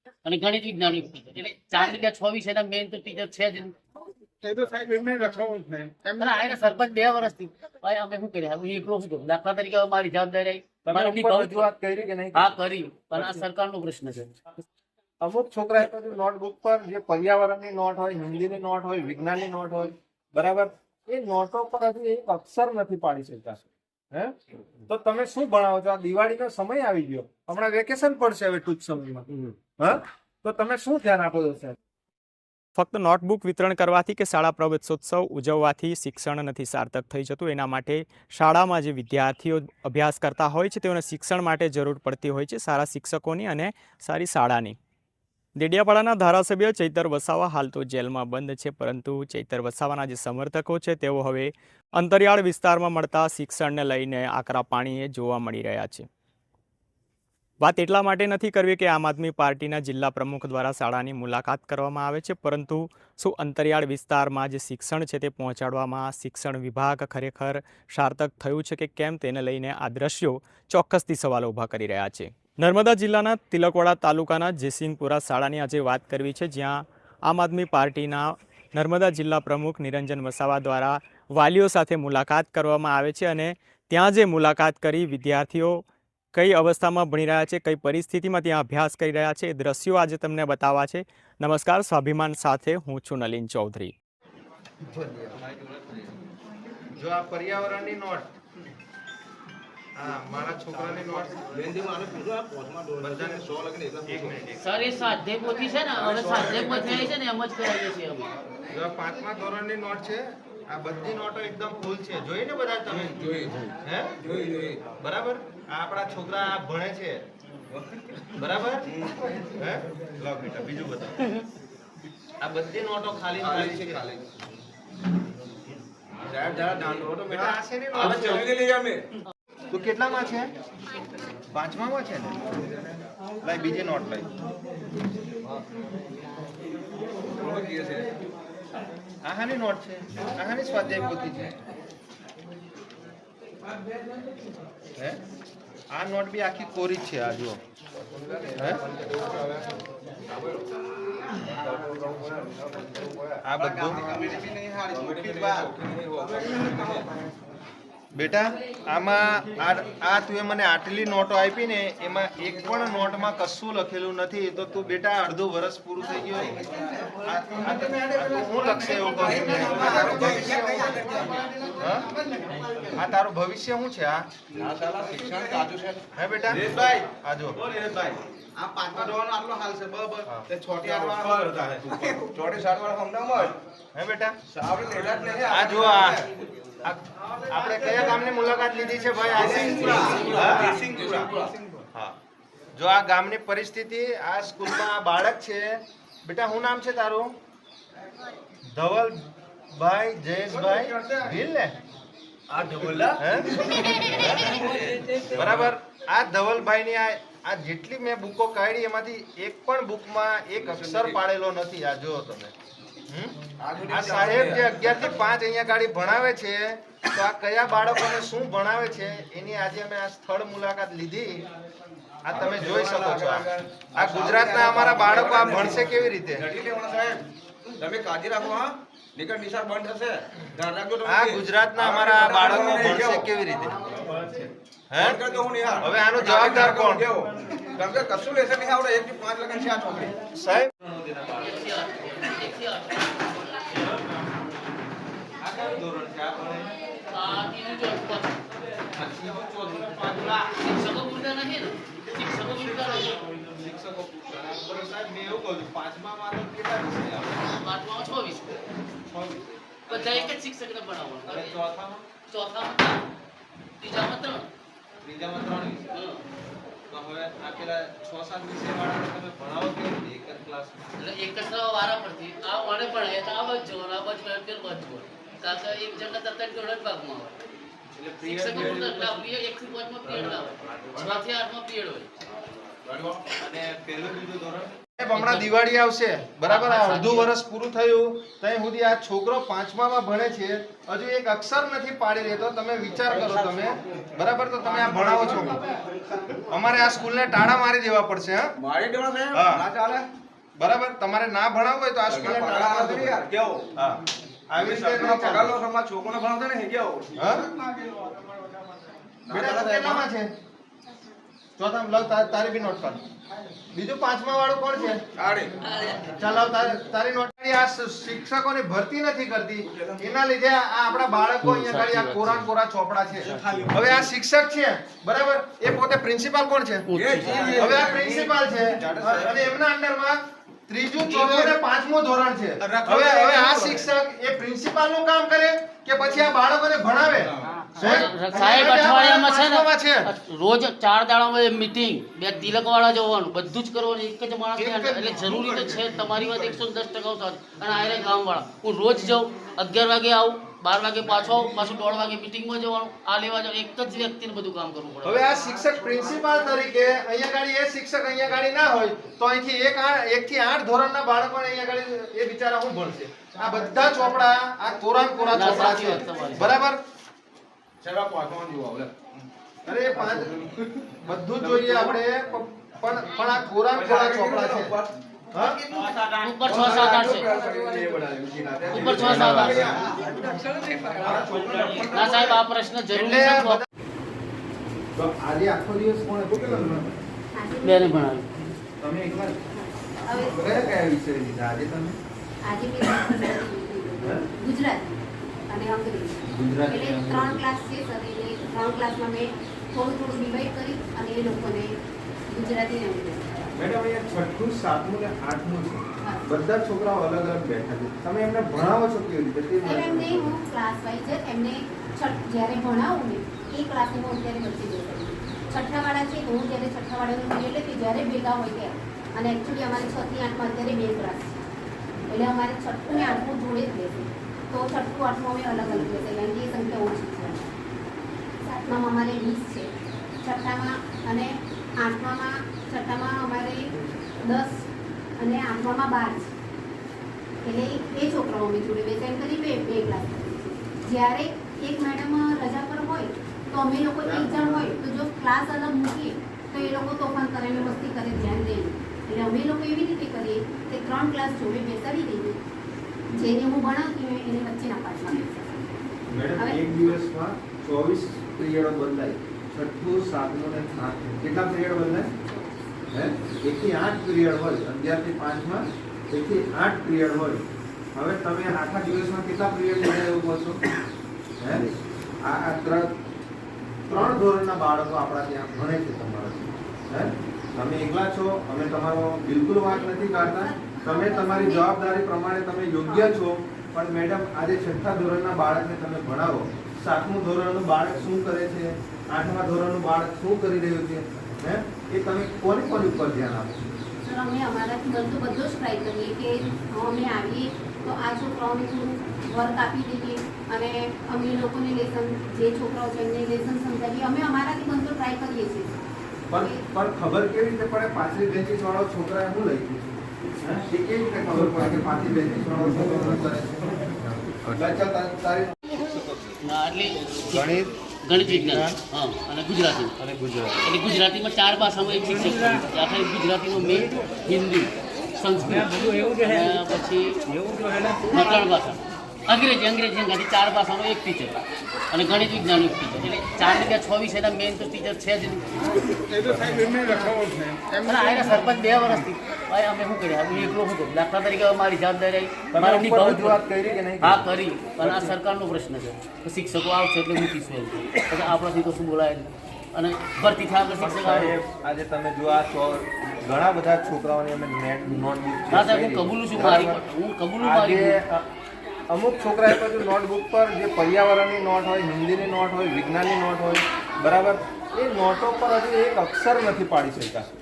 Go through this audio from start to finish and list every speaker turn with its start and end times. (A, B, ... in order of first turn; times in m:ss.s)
0:00.2-0:03.8 A
0:06.2-0:11.6 A
0:10.8-0:12.5 B
0:12.3-0:14.3 A
0:15.2-0:24.3 B
0:24.9-0:31.8 B
0:32.8-0:44.8 C
0:45.6-0:56.0 C
0:57.6-1:25.8 C
1:26.3-1:33.9 C
1:34.8-1:35.4 B
1:36.9-1:38.3 B
1:40.0-1:41.5 B
1:41.4-1:44.4 D
1:43.0-1:43.5 B
1:44.0-1:44.6 B
1:44.6-1:48.3 A
1:46.1-1:47.1 D
1:46.1-1:46.5 B
1:48.7-1:53.2 B
1:52.9-1:54.9 D
1:53.8-1:54.2 B
1:55.0-1:57.2 B
1:57.7-1:58.2 D
1:58.4-1:58.9 B
1:58.9-1:59.2 D
1:59.5-2:01.2 B
2:02.4-2:04.0 B
2:03.4-2:04.3 D
2:06.2-2:09.0 D
2:07.3-2:08.5 B
2:09.7-2:10.5 B
2:11.5-2:12.4 B
2:13.4-2:14.3 B
2:17.2-2:18.1 D
2:19.2-2:21.5 B
2:25.9-2:27.6 B
2:28.1-2:29.6 D
2:28.6-2:28.8 B
2:30.3-2:30.6 D
2:31.4-2:37.1 D
2:33.4-2:34.3 B
2:38.1-2:46.6 B
2:47.2-2:51.1 B
2:49.2-2:51.8 D
2:51.8-2:52.1 B
2:52.9-2:54.3 B
2:54.5-2:57.1 D
2:56.1-2:57.6 B
2:57.6-3:03.6 D
3:00.2-3:01.7 B
3:03.4-3:04.4 B
3:04.5-3:06.4 D
3:05.4-3:06.3 B
3:06.8-3:11.1 B
3:07.6-3:08.2 D
3:09.2-3:11.8 D
3:10.0-3:10.5 A
3:12.7-3:17.3 B
3:18.7-3:21.8 B
3:20.5-3:21.3 D
3:22.5-3:25.7 D
3:23.0-3:23.5 B
3:24.2-3:24.6 B
3:25.3-3:32.5 B
3:30.6-3:31.2 D
3:33.1-3:33.4 B
3:33.6-3:35.0 D
3:33.9-3:41.4 B
3:42.2-3:46.5 B
3:42.3-3:47.2 D
3:47.8-3:53.3 D
3:51.0-3:55.2 B
3:55.0-4:00.1 D
3:55.8-3:57.1 B
4:00.3-4:01.0 B
4:01.3-4:03.3 A
4:05.4-4:06.7 B
4:07.1-4:08.4 A
4:08.9-4:10.4 B
4:10.3-4:13.2 A
4:12.5-4:17.4 B
4:17.4-4:18.6 A
4:19.1-4:20.3 B
4:19.9-4:21.5 A
4:21.3-4:22.0 B
4:22.3-4:23.0 A
4:23.8-4:24.5 A
4:25.0-4:25.9 B
4:25.9-4:26.2 A
4:26.9-4:30.8 B
4:31.0-4:37.4 A
4:38.0-4:39.2 B
4:38.2-4:42.1 A
4:40.1-4:41.2 D
4:42.8-4:43.6 D
4:43.4-4:55.7 B
4:46.4-4:47.3 A
4:53.1-4:53.8 D
4:54.6-4:56.0 D
4:56.5-4:58.5 B
4:58.6-5:00.1 D
4:59.3-4:59.6 B
5:00.6-5:03.2 B
5:02.0-5:03.7 D
5:03.8-5:05.5 B
5:04.6-5:08.4 D
5:07.1-5:07.4 B
5:09.2-5:10.1 D
5:09.3-5:10.3 B
5:11.6-5:13.0 B
5:13.7-5:15.0 B
5:15.2-5:16.0 D
5:16.0-5:26.9 B
5:19.6-5:20.2 D
5:21.4-5:22.4 A
5:23.4-5:23.8 D
5:26.9-5:27.9 A
5:26.9-5:29.5 D
5:27.5-5:40.1 B
5:31.1-5:31.5 D
5:32.6-5:33.8 D
5:37.2-5:37.8 D
5:37.7-5:55.3 A
5:44.6-5:45.6 D
5:55.0-6:06.8 B
6:03.5-6:03.8 D
6:05.3-6:06.5 A
6:07.8-6:09.2 D
6:09.6-6:10.3 B
6:09.9-6:10.9 D
6:11.0-6:14.8 B
6:11.4-6:12.0 D
6:13.7-6:15.0 D
6:15.3-6:15.6 B
6:15.7-6:22.4 D
6:16.1-6:17.3 A
6:18.7-6:19.8 A
6:18.9-6:19.9 B
6:21.0-6:21.5 B
6:21.8-6:23.6 A
6:22.9-6:23.6 B
6:24.9-6:27.0 B
6:27.3-6:28.0 E
6:27.6-6:28.3 A
6:28.8-6:29.4 B
6:29.6-6:30.5 E
6:30.2-6:32.0 B
6:32.4-6:41.7 E
6:34.0-6:34.2 B
6:36.3-6:37.4 B
6:42.3-6:43.5 E
6:43.5-6:50.3 B
6:49.6-7:01.3 E
7:02.1-7:07.5 E
7:08.4-7:09.7 E
7:10.2-7:14.6 E
7:15.2-7:16.3 E
7:17.4-7:32.4 E
7:24.0-7:24.8 B
7:33.1-7:35.6 E
7:36.1-7:42.1 B
7:36.4-7:36.6 E
7:42.9-7:50.6 B
7:51.4-7:53.0 B
7:53.9-8:13.5 B
7:59.7-8:01.7 E
8:02.8-8:03.1 E
8:14.0-8:25.8 E
8:26.3-8:29.8 B
8:26.3-8:26.6 E
8:30.4-8:36.4 B
8:36.4-8:37.4 A
8:37.3-8:38.8 B
8:38.0-8:40.0 A
8:40.0-8:40.5 B
8:40.6-8:51.4 A
8:47.8-8:48.5 E
8:51.9-8:55.9 A
8:56.8-8:57.2 E
8:57.8-9:03.4 A
9:02.5-9:04.2 B
9:04.0-9:11.4 A
9:04.8-9:05.1 B
9:10.8-9:16.8 B
9:15.5-9:18.0 A
9:17.4-9:18.2 B
9:18.9-9:27.3 B